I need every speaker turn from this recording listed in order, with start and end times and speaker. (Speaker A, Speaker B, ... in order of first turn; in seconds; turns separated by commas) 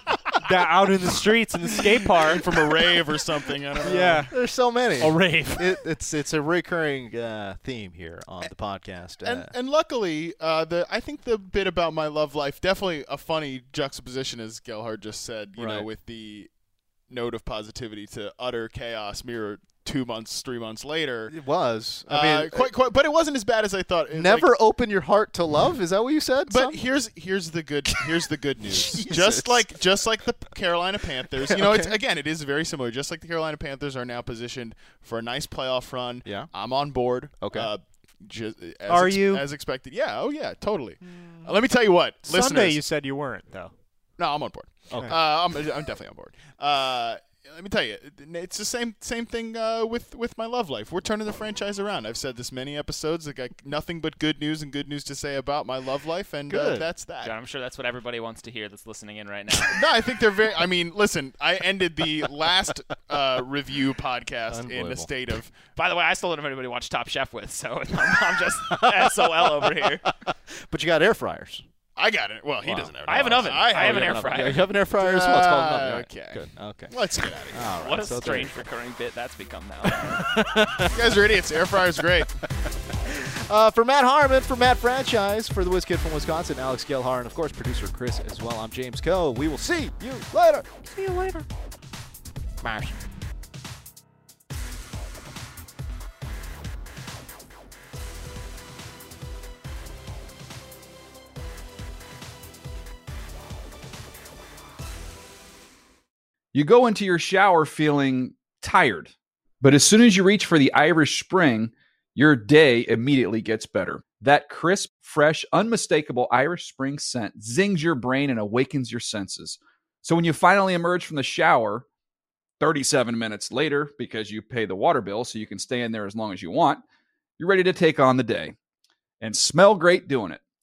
Speaker A: 0.4-2.5, Speaker B: 2.2-4.3, Speaker A: 3.8-4.3, Speaker C: 3.9-9.5, Speaker A: 5.0-5.8, Speaker B: 9.2-16.5, Speaker C: 15.6-15.9, Speaker B: 17.1-21.3, Speaker C: 21.3-22.7, Speaker B: 22.1-24.5, Speaker C: 24.1-26.8, Speaker B: 26.5-42.8, Speaker C: 28.7-29.8, Speaker C: 31.3-32.0, Speaker C: 36.2-36.5, Speaker C: 37.4-37.7, Speaker A: 38.9-39.5, Speaker C: 41.1-41.5, Speaker A: 42.2-43.7, Speaker B: 44.2-57.3, Speaker C: 44.9-45.2, Speaker C: 56.5-56.9, Speaker D: 57.2-59.8, Speaker B: 59.7-65.5, Speaker C: 64.5-65.1, Speaker D: 65.8-70.1, Speaker C: 68.7-71.6, Speaker B: 72.0-77.7, Speaker C: 72.6-76.9, Speaker D: 73.0-74.7, Speaker C: 77.5-78.7, Speaker D: 77.8-80.3, Speaker C: 79.9-81.3, Speaker B: 80.8-82.3, Speaker C: 83.0-90.8, Speaker A: 91.0-91.5, Speaker C: 92.6-93.0, Speaker E: 106.5-121.8, Speaker E: 122.6-126.8, Speaker E: 127.4-128.5, Speaker E: 129.2-130.4